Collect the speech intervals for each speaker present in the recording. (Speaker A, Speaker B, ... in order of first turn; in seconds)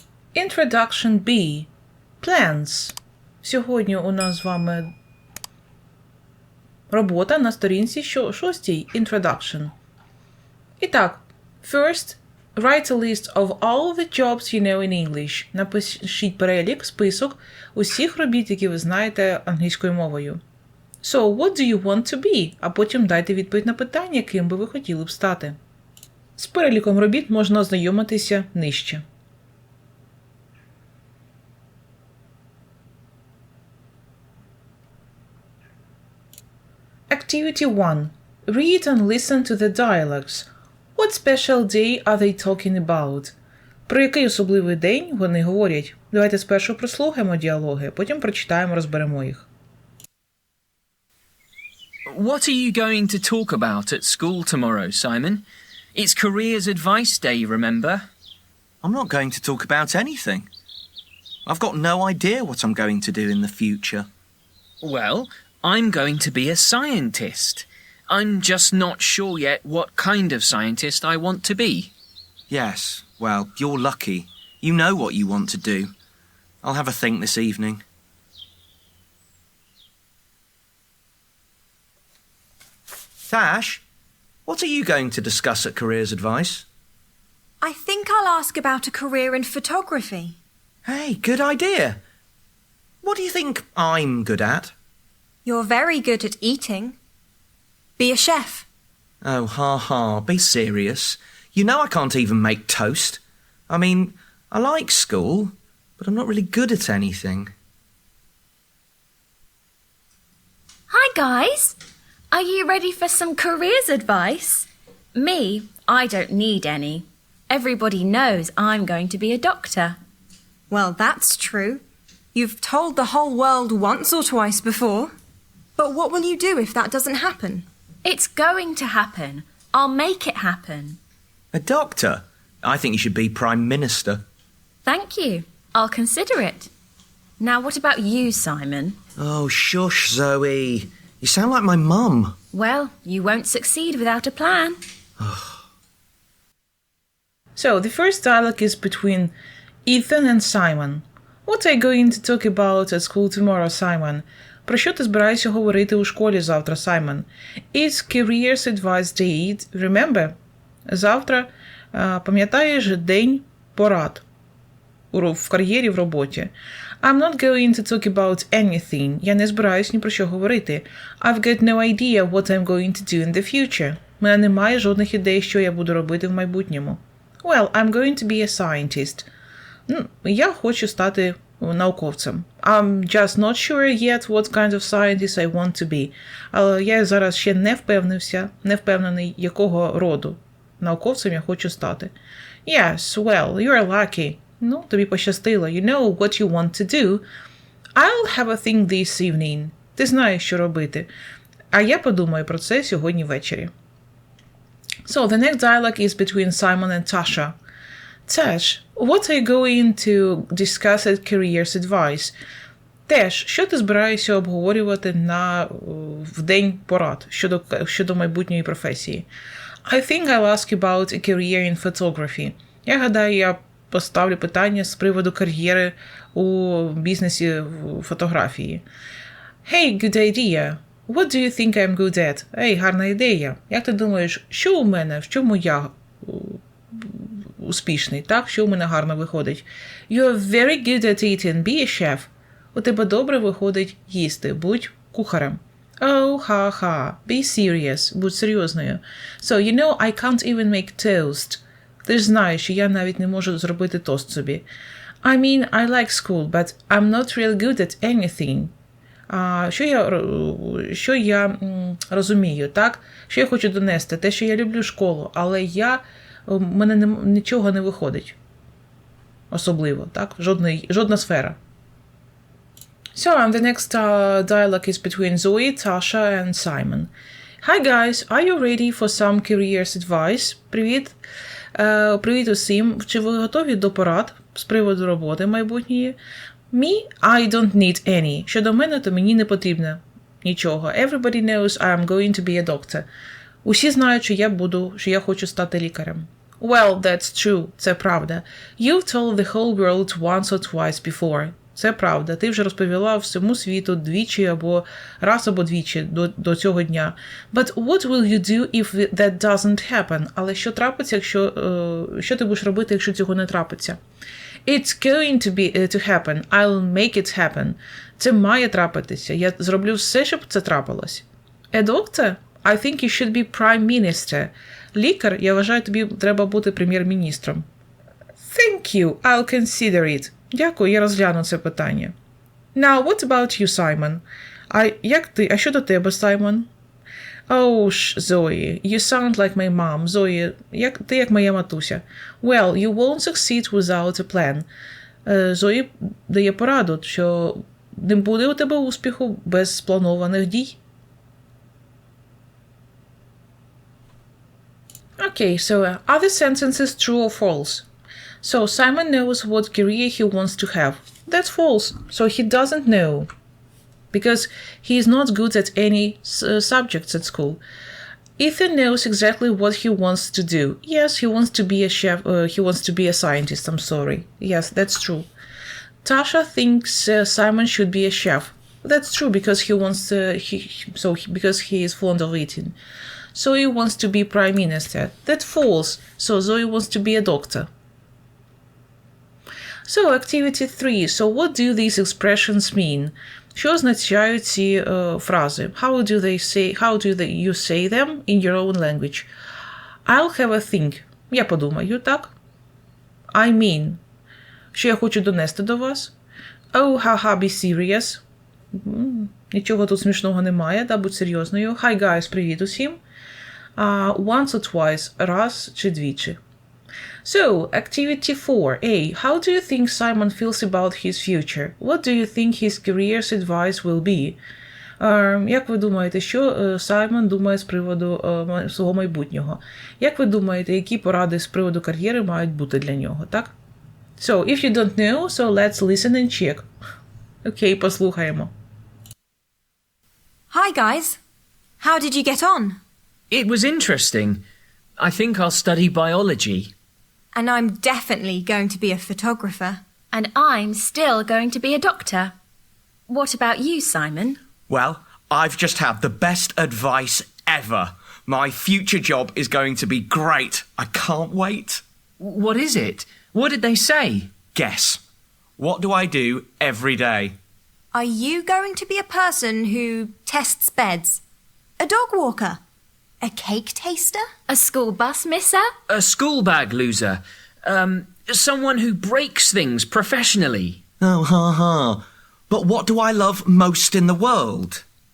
Speaker A: 0.3-1.7, 2.2-4.9, 6.9-9.7, 10.8-20.4, 21.0-25.6, 26.4-29.0, 37.1-43.3, 43.9-49.5, 147.6-160.3, 160.9-164.2, 165.1-179.3, 179.9-192.1, 192.7-197.2, 198.0-201.1, 201.7-203.7, 205.1-207.6, 208.2-212.3, 213.1-219.3, 219.8-228.8, 229.7-254.7, 255.2-258.7, 259.3-268.4, 269.5-271.6, 273.1-277.1, 277.6-281.2, 281.8-286.2, 286.7-293.1, 293.6-314.0, 314.6-327.6, 328.4-332.1, 332.8-336.7, 337.5-344.7, 345.2-350.8, 355.2-357.9, 358.4-363.3, 364.1-367.6, 368.4-375.3, 376.0-382.8, 383.3-387.7, 389.9-399.3, 400.1-402.3, 403.3-404.0, 404.7-406.1, 406.7-408.2, 408.7-413.0, 413.8-416.4, 417.2-424.4, 425.0-433.5, 434.2-436.6, 437.4-438.5
Speaker B: 52.1-55.4, 56.0-58.1, 64.8-71.9, 443.3-444.4, 445.0-446.7, 462.2-464.3, 475.9-480.8
Speaker C: 58.8-60.5, 61.5-64.1, 72.5-75.9, 76.6-77.8, 83.3-83.8, 84.5-86.7, 90.8-92.0, 93.0-94.7, 99.2-107.5, 131.5-134.2, 139.2-142.4, 145.2-145.6, 454.7-461.8, 464.5-465.0, 465.6-467.4, 481.0-484.8
Speaker D: 87.6-90.4, 95.5-97.0, 98.0-98.7, 120.7-121.8, 122.3-125.1, 125.8-127.7, 440.5-441.2, 441.8-442.8, 447.3-449.8, 467.9-471.2, 471.8-472.6, 473.2-474.2
Speaker E: 110.9-111.8, 112.3-120.0, 128.0-131.0, 134.9-136.7, 137.4-139.0, 142.5-144.8, 450.1-452.3, 453.1-454.4, 474.5-475.7